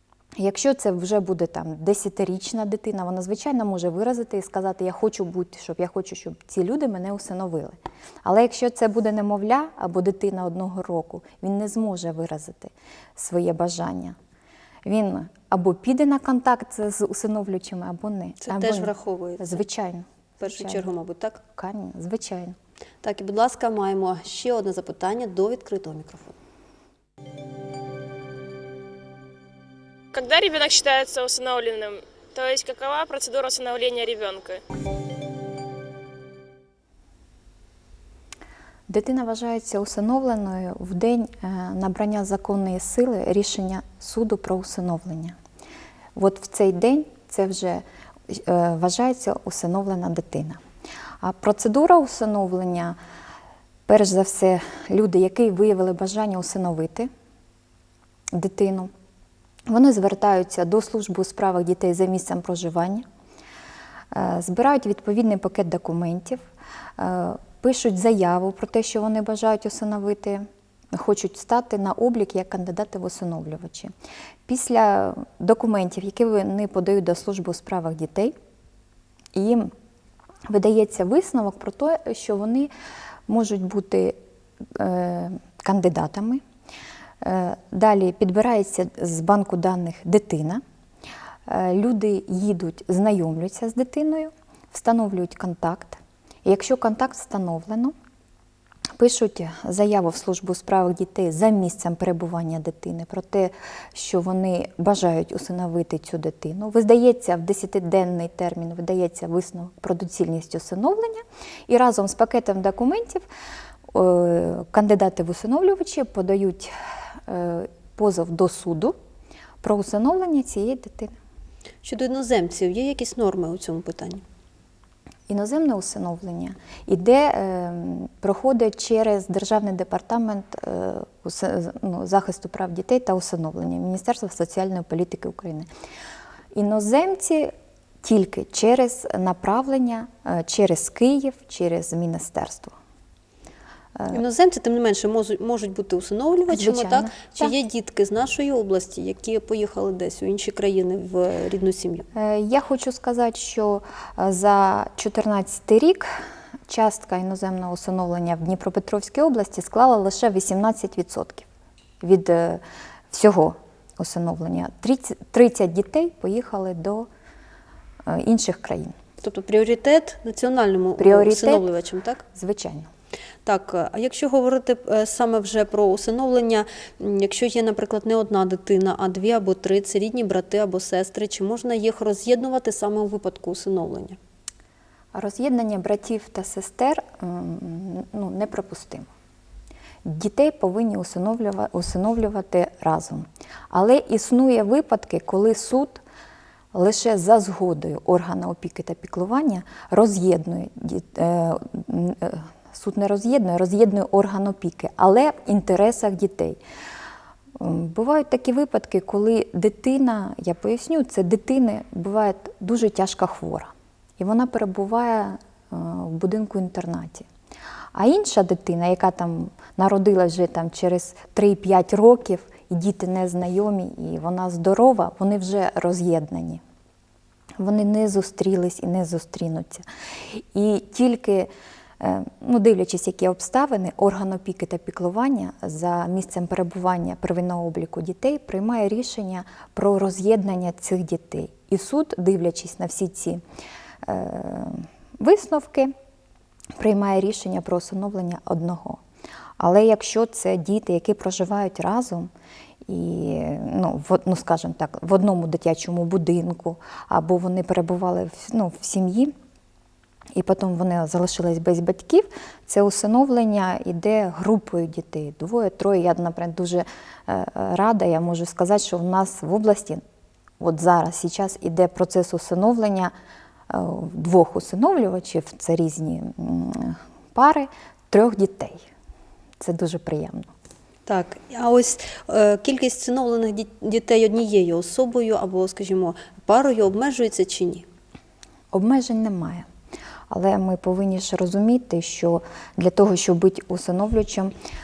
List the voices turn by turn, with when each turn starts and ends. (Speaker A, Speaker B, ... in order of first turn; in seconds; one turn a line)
Speaker A: 0.4-14.2
Speaker A: 14.9-20.9
Speaker B: 18.4-19.6
Speaker B: 20.4-21.4
Speaker A: 21.6-22.6
Speaker B: 23.0-26.4
Speaker C: 30.1-34.6
Speaker A: 38.9-45.4
Speaker A: 46.2-50.6
Speaker A: 51.2-53.0
Speaker A: 53.9-57.1
Speaker A: 58.3-58.9
Speaker A: 59.7-63.0
Speaker A: 64.1-66.4
Speaker A: 67.0-73.9
Speaker A: 74.5-78.3
Speaker A: 79.3-79.7
Speaker A: 80.5-82.7
Speaker A: 83.3-84.2
Speaker A: 84.7-86.4
Speaker A: 87.2-90.6
Speaker A: 91.5-98.0
Speaker A: 99.0-113.3
Speaker A: 113.9-116.7
Speaker A: 117.3-119.0
Speaker A: 119.6-121.2
Speaker B: 121.8-124.2
Speaker A: 125.3-135.7
Speaker A: 136.5-137.5
Speaker A: 138.0-142.7
Speaker B: 144.1-152.1
Speaker A: 146.5-147.5
Speaker A: 152.2-161.5
Speaker A: 162.0-167.1
Speaker A: 168.1-168.9
Speaker B: 169.2-172.2
Speaker A: 171.0-171.7
Speaker A: 172.3-172.9
Speaker B: 173.4-184.2
Speaker A: 185.1-189.1
Speaker A: 190.1-196.0
Speaker A: 196.7-206.6
Speaker A: 207.6-217.3
Speaker A: 217.9-226.6
Speaker A: 227.6-243.4
Speaker A: 244.1-245.9
Speaker A: 246.8-249.0
Speaker A: 249.6-252.3
Speaker A: 252.9-259.3
Speaker A: 260.4-270.0
Speaker A: 270.6-273.1
Speaker A: 273.7-278.8
Speaker A: 279.6-280.5
Speaker B: 281.1-287.9
Speaker A: 288.7-289.7
Speaker A: 290.3-294.5